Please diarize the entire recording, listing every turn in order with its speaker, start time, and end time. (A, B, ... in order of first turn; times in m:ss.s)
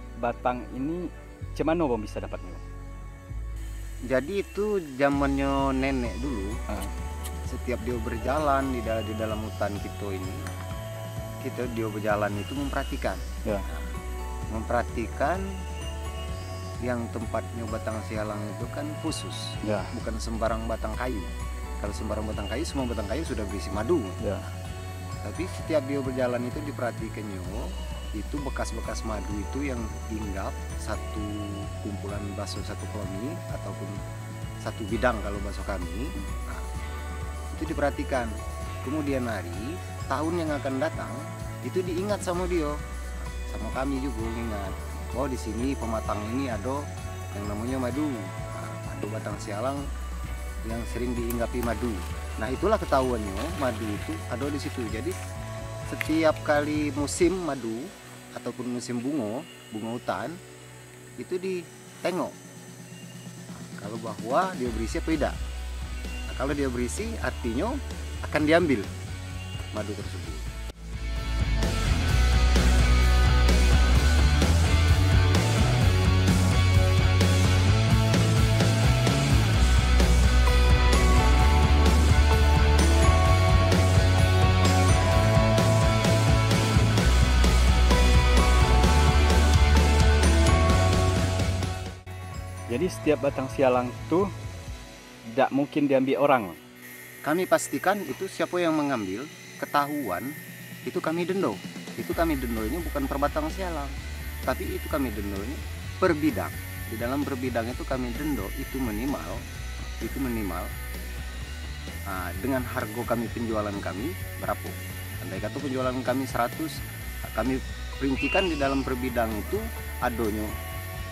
0:00.2-0:02.6 A
0:04.1-0:06.6 B
0:07.5-0:10.4 B
0:11.4-0:14.0 B
0:14.5-0:15.6 B
0:16.8-0:24.3 B
0:19.6-0:19.9 A
0:25.2-0:34.0 B
0:34.6-0:36.7 B
0:37.5-0:42.8 B
0:43.4-0:49.9 B
0:50.6-0:55.2 B
0:55.9-1:00.4 B
1:01.2-1:02.4 B
1:03.5-1:05.4 B
1:06.3-1:08.9 B
1:09.7-1:10.5 B
1:32.7-1:34.3 A
1:35.3-1:36.6 A
1:37.2-1:49.4 B
1:50.0-1:50.7 B
1:52.1-2:00.5 B